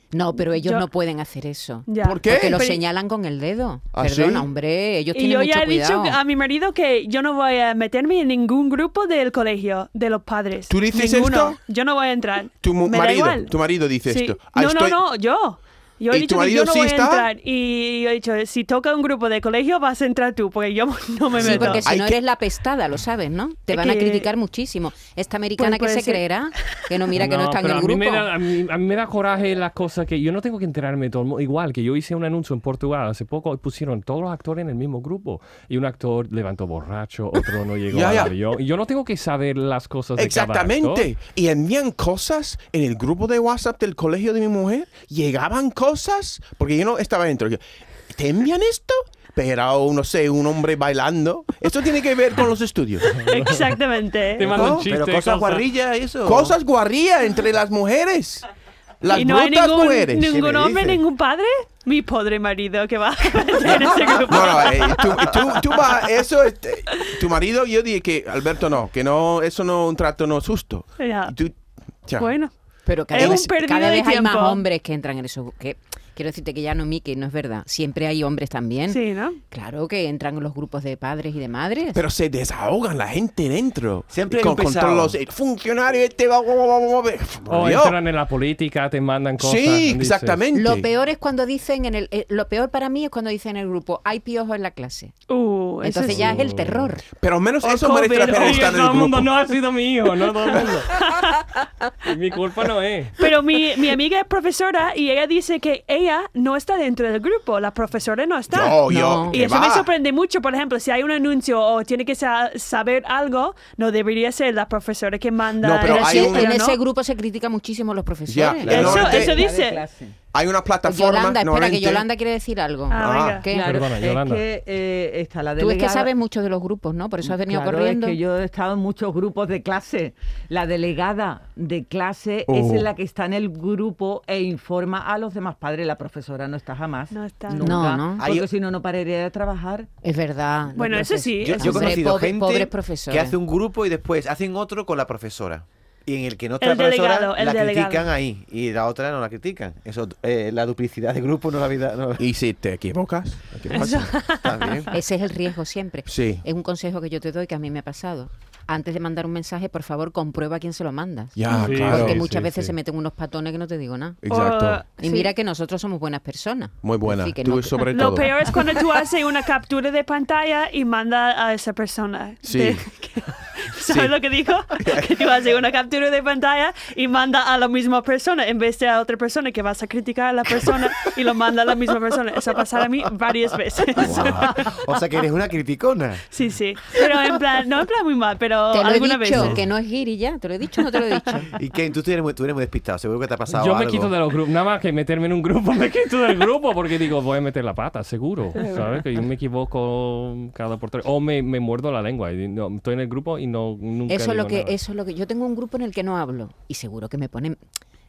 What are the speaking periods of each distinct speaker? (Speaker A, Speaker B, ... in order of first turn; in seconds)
Speaker A: 0.1-6.2, 21.4-28.3, 72.8-79.0, 79.5-82.0, 90.5-95.1, 95.8-97.0, 108.9-109.3, 115.8-119.1, 120.9-123.8, 125.6-128.2, 137.6-138.2, 140.0-143.3, 154.9-164.2, 165.0-168.6, 188.7-191.5, 204.1-207.6
Speaker B: 0.5-0.8, 1.9-2.8, 5.1-21.8, 23.7-24.3, 25.6-26.2, 53.1-54.7, 59.1-65.5, 71.0-71.3, 72.2-72.5, 73.1-74.6, 78.9-79.4, 95.3-96.4, 97.6-99.0, 100.9-101.4, 103.2-116.8, 118.7-119.8, 122.9-123.5, 137.1-137.8, 140.7-142.0, 146.6-148.1, 153.7-154.9, 164.3-165.3, 167.9-184.6, 186.3-189.6
Speaker C: 2.0-2.6, 3.9-4.5, 10.7-11.6, 12.6-15.0, 16.1-17.3, 21.4-22.2, 37.9-38.3, 40.1-53.1, 54.5-54.8, 56.2-58.5, 59.0-60.3, 64.2-71.5, 72.0-72.3, 73.1-73.5, 81.9-88.0, 89.4-90.9, 97.2-99.3, 108.5-109.9, 115.6-116.5, 118.3-119.4, 120.3-122.1, 122.9-123.5, 132.5-132.9, 138.2-138.5, 152.2-154.2, 156.1-156.4, 161.3-162.4, 164.2-164.8, 166.8-168.5, 172.4-172.9, 173.8-175.2
Speaker D: 27.1-41.1, 53.2-53.6, 54.4-55.6, 87.5-90.4, 96.1-96.9, 98.2-100.9, 102.0-103.2, 123.5-124.4, 161.6-162.7, 193.5-204.7
Speaker E: 54.4-56.5, 60.2-61.0, 84.1-85.1, 141.4-152.2, 154.4-154.9, 183.9-186.2, 191.5-194.1
Speaker F: 118.7-120.1, 123.6-126.1, 127.2-139.9